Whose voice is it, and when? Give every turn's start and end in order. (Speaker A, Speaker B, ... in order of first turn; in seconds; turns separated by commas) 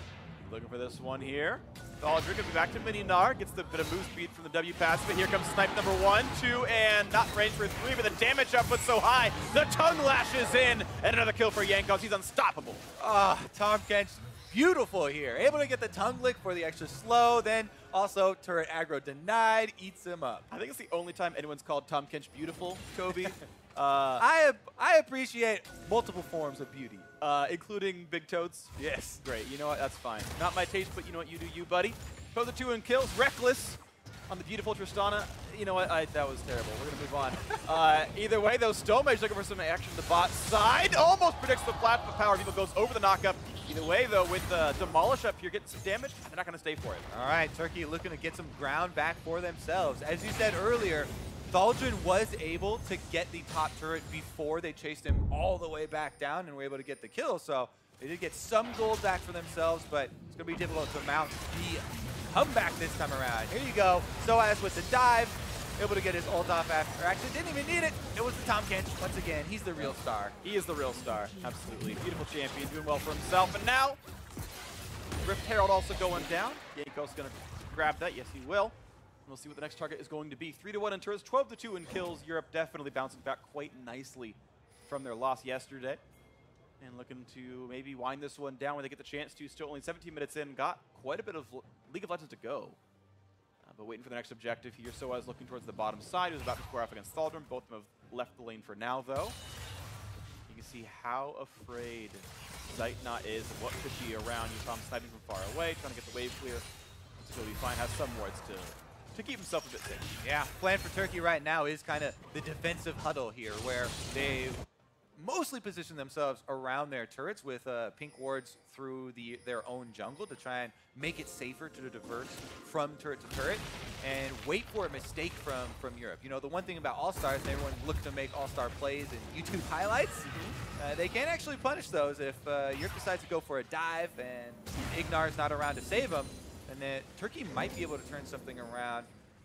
Speaker A: 0.4-12.8, Speaker B: 13.0-20.4, Speaker A: 20.5-24.2, Speaker B: 24.2-27.1, Speaker A: 27.2-47.1, Speaker B: 28.8-29.2, Speaker B: 47.1-70.3, Speaker A: 70.4-74.0, Speaker A: 75.2-78.7, Speaker A: 79.2-86.0, Speaker A: 86.8-92.8, Speaker A: 93.6-99.3, Speaker A: 100.5-106.6, Speaker A: 107.2-110.1, Speaker B: 110.2-114.6, Speaker B: 115.2-139.1, Speaker A: 130.2-130.6